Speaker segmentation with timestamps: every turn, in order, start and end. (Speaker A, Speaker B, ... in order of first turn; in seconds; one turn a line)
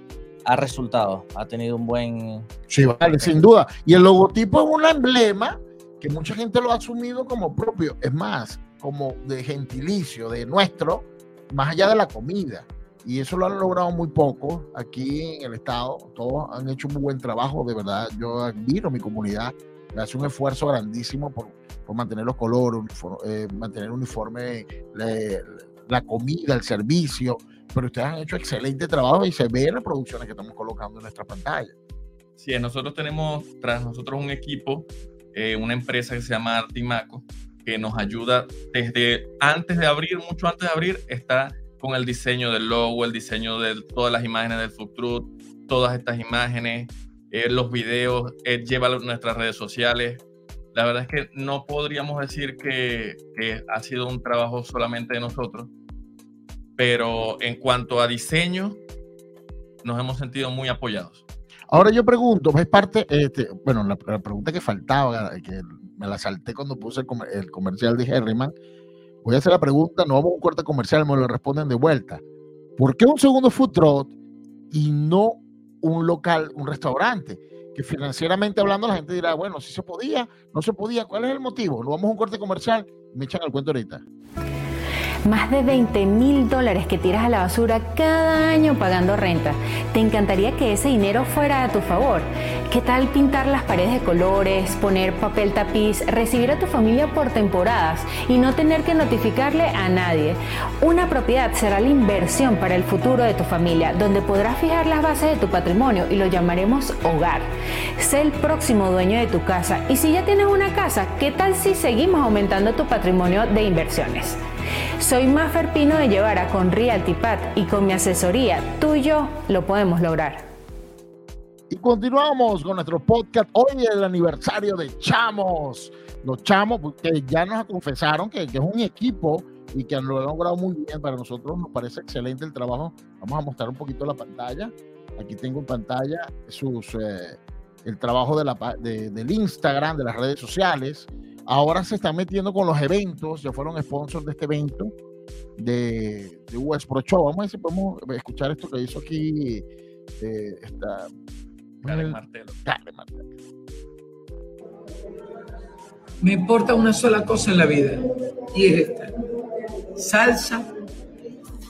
Speaker A: 0.5-2.5
Speaker B: 2.7-31.7
Speaker C: 32.4-50.2
Speaker C: 50.7-55.7
Speaker C: 56.8-58.8
Speaker C: 59.8-61.2
Speaker B: 61.7-68.5
Speaker B: 69.2-72.2
Speaker B: 72.8-74.1
Speaker B: 74.7-84.0
Speaker D: 85.2-114.4
Speaker D: 115.0-120.4
Speaker B: 121.7-144.9
Speaker B: 145.6-149.7
Speaker B: 150.2-151.1
Speaker C: 151.8-152.6
Speaker B: 151.8-153.2
Speaker E: 156.2-158.0
Speaker E: 158.5-159.1
Speaker E: 159.9-160.7